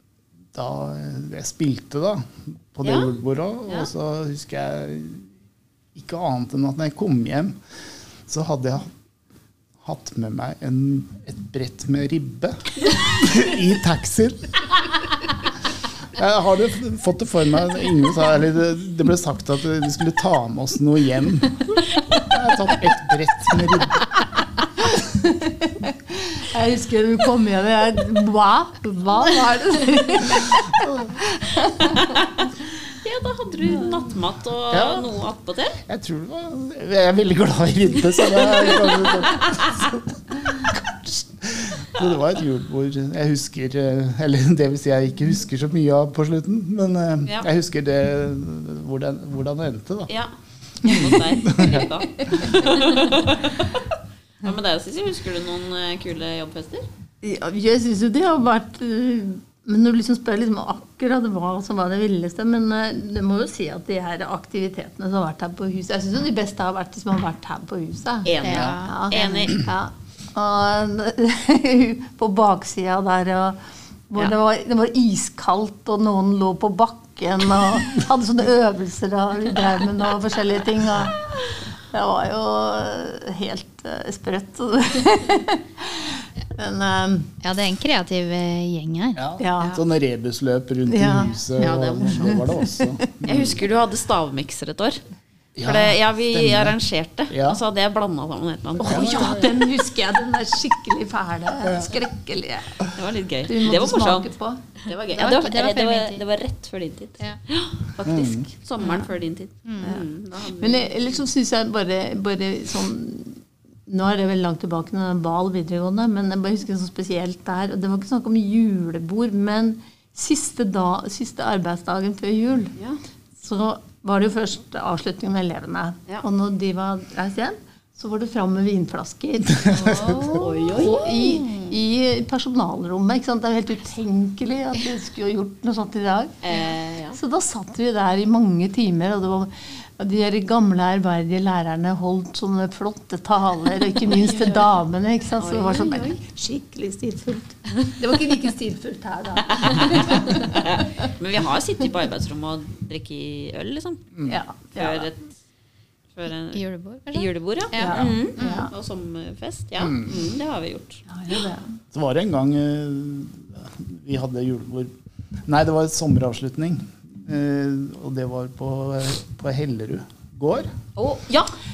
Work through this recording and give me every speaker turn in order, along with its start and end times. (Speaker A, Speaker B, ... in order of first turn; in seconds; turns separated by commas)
Speaker A: 0.5-5.3, Speaker B: 2.8-3.1, Speaker A: 5.9-7.6, Speaker A: 8.3-8.9, Speaker A: 9.8-14.7, Speaker A: 16.1-24.0, Speaker C: 24.9-31.9, Speaker A: 30.7-31.1, Speaker B: 31.9-35.8, Speaker A: 34.7-35.1, Speaker A: 35.9-50.1, Speaker B: 39.0-39.7, Speaker B: 50.1-53.8, Speaker A: 50.9-51.9, Speaker B: 54.4-56.9, Speaker C: 57.2-87.3, Speaker B: 68.2-69.6, Speaker D: 68.4-69.0, Speaker D: 87.4-89.4, Speaker A: 89.1-93.6, Speaker C: 89.4-89.8, Speaker C: 90.9-91.6, Speaker B: 91.6-92.5, Speaker C: 92.2-93.0, Speaker B: 93.2-95.0, Speaker A: 95.6-96.8, Speaker B: 95.6-99.3, Speaker A: 97.3-97.6, Speaker A: 98.8-99.6, Speaker C: 98.8-102.9, Speaker A: 101.6-101.9, Speaker B: 102.9-104.3, Speaker C: 103.5-104.6, Speaker B: 104.8-111.2, Speaker D: 105.1-106.2, Speaker A: 108.0-108.5, Speaker D: 109.6-110.0, Speaker C: 109.8-122.7, Speaker C: 123.4-130.1, Speaker A: 129.6-130.3, Speaker D: 129.7-131.4, Speaker B: 130.2-131.6, Speaker C: 130.7-136.4, Speaker B: 136.4-137.2, Speaker C: 137.1-150.6, Speaker B: 145.4-146.2, Speaker B: 149.6-155.3, Speaker C: 154.2-155.1, Speaker B: 156.1-161.0, Speaker D: 156.5-158.7, Speaker C: 157.8-158.7, Speaker A: 159.8-160.1, Speaker C: 161.1-161.7, Speaker A: 161.9-164.9, Speaker A: 165.4-170.7, Speaker B: 170.9-171.5